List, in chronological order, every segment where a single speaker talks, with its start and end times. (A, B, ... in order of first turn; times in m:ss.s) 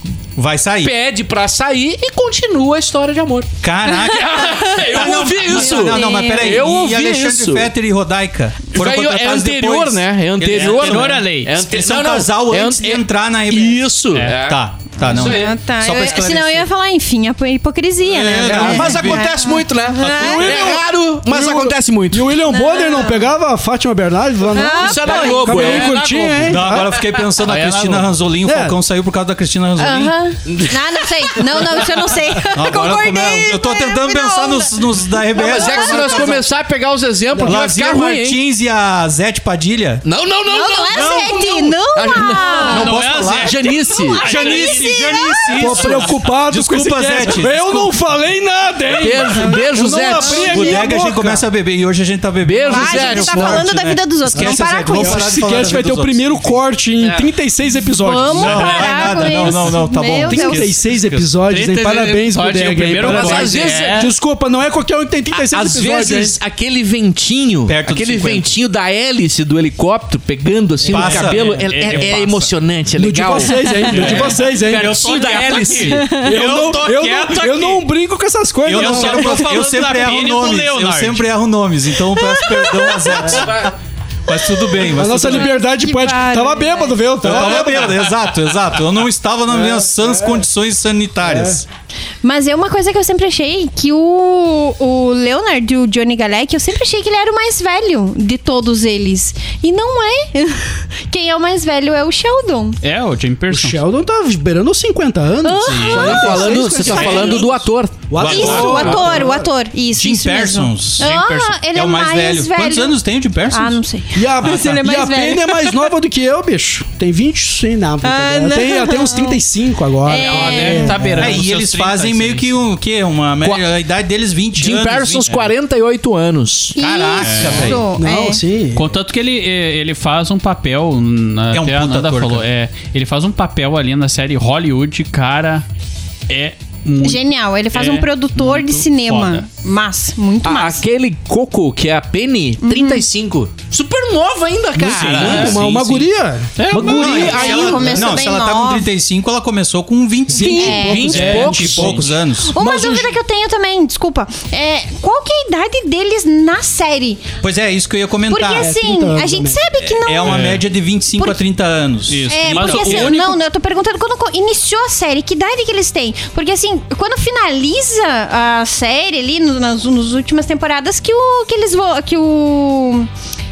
0:00.4-0:00.9 A
0:00.8-0:07.7 B
0:03.6-0:16.7 A
0:03.9-0:06.6 C
0:08.7-0:15.6 B
0:10.5-0:11.5 D
0:15.0-0:20.7 C
0:18.0-0:19.4 A
0:18.4-0:22.4 B
0:18.4-0:19.1 E
0:20.0-0:20.8 A
0:20.2-0:27.0 E
0:22.5-0:23.2 C
0:24.5-0:25.6 C
0:24.6-0:28.0 B
0:26.4-0:30.2 A
0:27.4-0:28.1 D
0:28.4-0:28.8 E
0:29.8-0:36.4 C
0:30.4-0:32.4 B
0:32.5-0:36.5 A
0:35.3-0:38.4 B
0:37.3-0:37.6 E
0:37.4-0:40.0 A
0:40.0-0:44.7 B
0:40.5-0:42.9 C
0:40.9-0:41.8 A
0:42.5-0:47.9 A
0:42.7-0:45.2 D
0:43.8-0:45.9 C
0:45.6-0:51.5 E
0:49.0-0:50.8 B
0:50.2-0:50.7 C
0:50.4-0:56.6 A
0:52.4-0:53.7 B
0:52.6-0:55.4 C
0:54.3-0:58.9 E
0:57.0-0:57.3 B
0:58.0-1:00.6 C
0:58.3-1:01.3 A
0:58.5-0:59.3 B
1:00.2-1:06.4 E
1:01.5-1:04.1 D
1:03.0-1:04.1 B
1:05.3-1:16.3 B
1:07.7-1:08.5 A
1:10.8-1:12.5 D
1:10.9-1:12.0 A
1:13.0-1:15.1 E
1:13.9-1:17.8 D
1:16.1-1:19.8 E
1:18.6-1:23.7 A
1:18.7-1:21.3 D
1:22.1-1:23.5 C
1:23.2-1:23.7 B
1:24.3-1:25.5 A
1:24.8-1:27.0 C
1:24.8-1:28.0 E
1:27.2-1:31.6 A
1:29.5-1:30.4 E
1:31.2-1:31.6 E
1:32.2-1:42.8 C
1:42.8-1:43.8 D
1:43.5-1:47.5 E
1:45.4-1:47.4 C
1:45.6-1:46.1 D
1:45.8-1:48.8 B
1:48.1-1:49.5 E
1:48.2-1:49.2 A
1:48.2-1:53.0 C
1:49.9-1:53.8 A
1:51.0-1:51.2 D
1:53.5-1:55.9 C
1:54.1-2:01.4 E
1:58.0-1:59.4 C
2:00.0-2:01.0 C
2:00.1-2:02.6 D
2:01.2-2:05.5 A
2:04.5-2:06.8 B
2:06.8-2:08.4 C
2:06.8-2:07.8 A
2:07.2-2:07.8 D
2:07.9-2:08.9 E
2:08.8-2:15.6 D
2:11.5-2:12.4 A
2:16.3-2:19.4 D
2:17.0-2:20.8 C
2:20.4-2:25.6 B
2:22.6-2:23.0 C
2:24.8-2:28.3 E
2:24.8-2:26.1 A
2:25.1-2:25.6 D
2:26.6-2:27.5 D
2:26.7-2:28.9 C
2:26.7-2:28.1 B
2:26.8-2:32.5 A
2:30.3-2:33.2 E
2:30.3-2:31.2 C
2:30.4-2:32.1 B
2:31.0-2:32.1 D
2:32.4-2:37.2 C
2:37.4-2:38.7 A
2:38.3-2:40.5 C
2:38.5-2:39.6 E
2:39.8-2:43.1 A
2:40.2-2:40.6 D
2:42.1-2:43.4 D
2:42.3-2:53.1 C